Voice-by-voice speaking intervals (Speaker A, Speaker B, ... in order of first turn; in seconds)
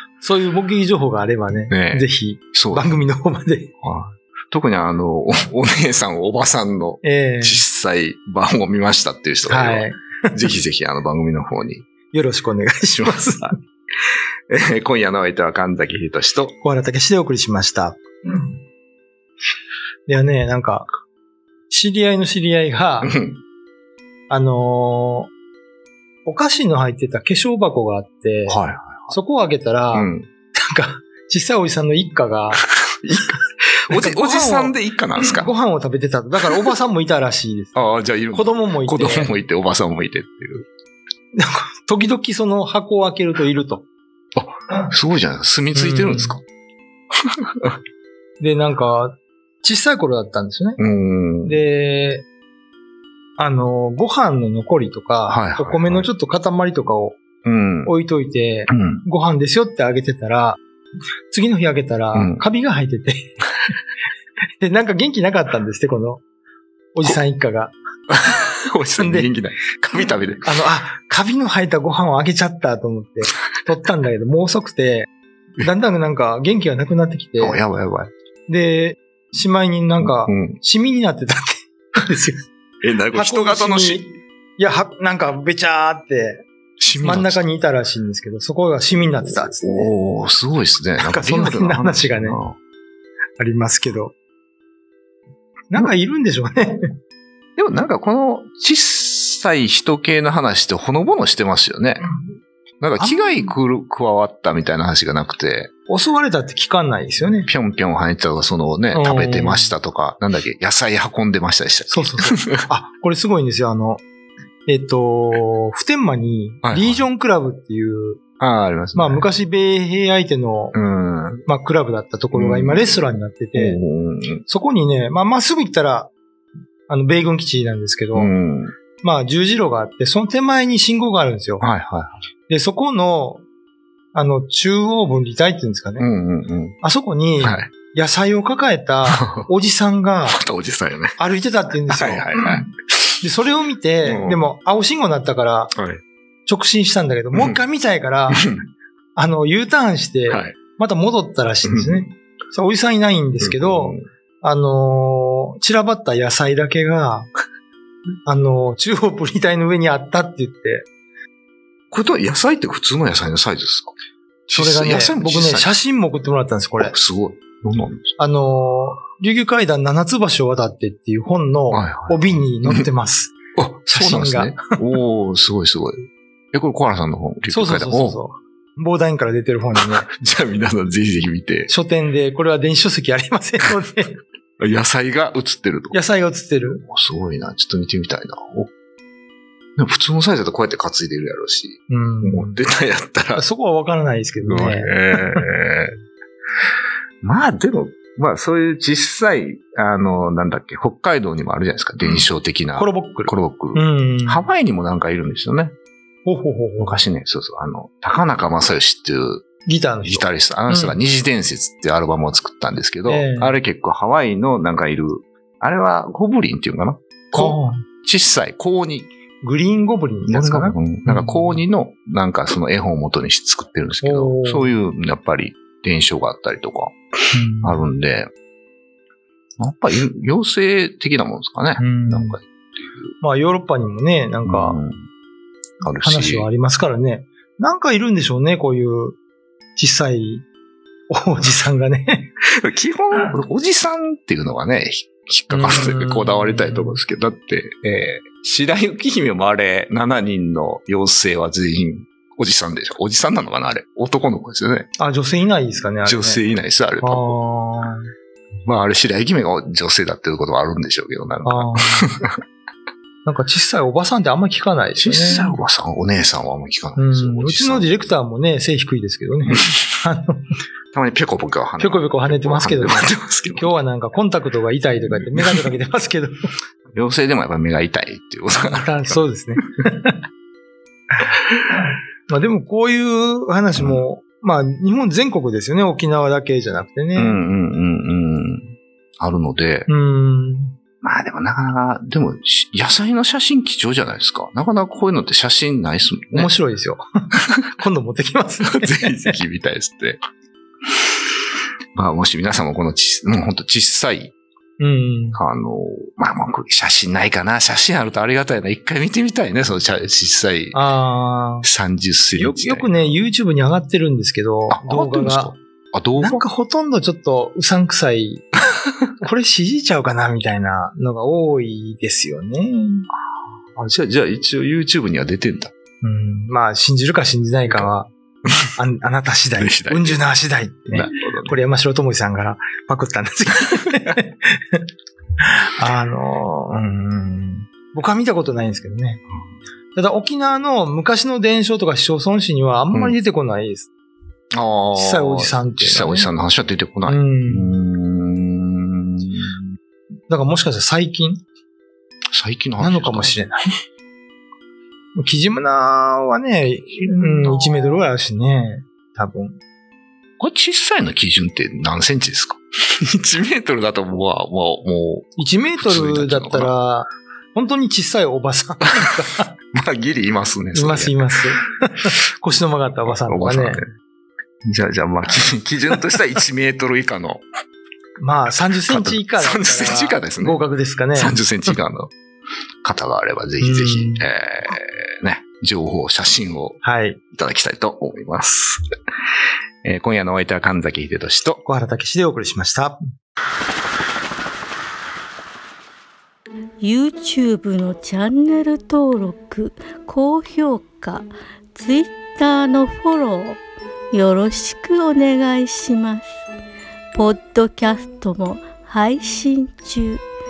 Speaker A: 0.2-3.7, 7.0-7.6, 9.4-10.4, 12.1-13.6, 16.6-18.6, 20.1-20.9, 21.7-23.1, 24.3-25.3, 26.2-32.6, 33.9-39.4, 41.3-43.9, 45.7-46.4, 48.4-50.8, 51.4-52.2, 53.4-57.2, 57.8-60.6, 61.3-63.3, 64.6-66.2, 66.9-67.7, 69.0-69.3, 70.4-75.1, 75.6-77.6, 78.5-82.5, 83.1-86.4, 87.0-89.9, 91.0-92.4, 93.4-94.1, 95.7-96.9, 103.0-103.5, 105.9-107.5, 108.9-109.7, 111.9-114.0, 114.7-118.2, 118.9-120.8, 121.4-123.8, 124.5-126.1, 126.9-128.3, 129.0-131.7, 132.5-133.4, 134.1-136.1, 136.8-140.4, 141.2-142.6, 143.2-145.7, 146.4-148.5, 149.1-157.3, 158.2-160.9, 164.5-166.9, 168.2-174.7, 177.5-180.1, 181.7-184.2, 185.9-186.8, 191.9-192.6, 193.3-195.5, 202.8-204.5, 206.2-207.0, 209.7-211.0, 213.1-213.6, 217.3-217.8, 219.4-221.6, 224.0-224.7, 227.3-227.8, 231.8-232.4, 233.2-234.8, 236.0-239.2, 239.8-240.4, 241.1-242.3, 245.5-247.0, 255.0-256.4, 257.0-258.1, 261.4-262.1, 263.2-265.6, 266.9-270.4, 271.8-276.5, 278.6-280.2, 282.3-287.4, 289.9-290.7, 296.3-297.0, 297.8-299.4, 304.8-305.4, 310.7-311.7, 312.3-315.5, 316.2-318.5, 319.2-323.1, 326.0-328.1, 328.8-334.8, 335.4-339.2, 339.9-343.9, 344.9-346.3, 347.1-347.8, 350.3-351.4, 352.8-353.6, 355.1-359.6, 365.4-369.5, 370.7-373.8, 378.2-381.8, 383.6-384.2, 386.8-387.2, 391.6-393.0
Speaker B: 1.7-2.8, 3.8-11.8, 12.9-13.5, 14.5-16.5, 23.0-23.4, 28.5-29.1, 29.9-30.3, 33.9-35.5, 37.7-40.6, 44.3-46.4, 50.8-51.6, 55.3-56.1, 57.4-57.9, 58.7-59.0, 62.1-62.4, 68.1-70.5, 77.4-78.1, 80.0-80.6, 82.8-84.0, 86.8-87.4, 89.2-92.5, 97.6-102.0, 102.8-105.7, 107.4-112.6, 116.6-117.0, 118.4-119.3, 120.7-121.4, 122.3-123.0, 123.5-124.4, 128.1-128.7, 131.6-132.2, 136.0-136.8, 137.4-137.7, 139.1-139.5, 140.2-141.1, 141.9-143.2, 144.0-144.4, 145.7-146.0, 147.3-147.6, 148.3-148.6, 151.6-152.1, 153.4-154.0, 161.9-163.9, 164.5-165.8, 166.8-168.1, 171.7-172.8, 173.6-178.2, 179.8-181.7, 184.6-185.9, 186.8-188.7, 189.8-193.4, 194.4-195.9, 197.2-205.7, 206.8-209.4, 210.0-219.1, 220.3-227.0, 227.6-228.3, 229.6-233.1, 234.4-235.1, 235.8-236.5, 242.5-254.9, 256.0-257.3, 258.6-262.3, 264.9-268.1, 270.9-273.7, 276.9-279.2, 283.8-284.0, 287.1-289.9, 291.0-296.5, 298.6-300.2, 301.9-304.3, 305.3-310.8, 311.6-313.1, 314.7-316.4, 323.7-325.7, 329.6-330.2, 330.9-331.6, 344.5-349.6, 352.3-353.4, 356.9-358.0, 360.4-366.7, 369.7-371.2, 373.1-373.9, 374.6-377.4, 378.9-380.6, 381.1-382.1, 382.8-386.8, 387.3-388.8, 389.8-391.6
Speaker C: 396.8-403.6, 404.1-406.4, 407.1-410.2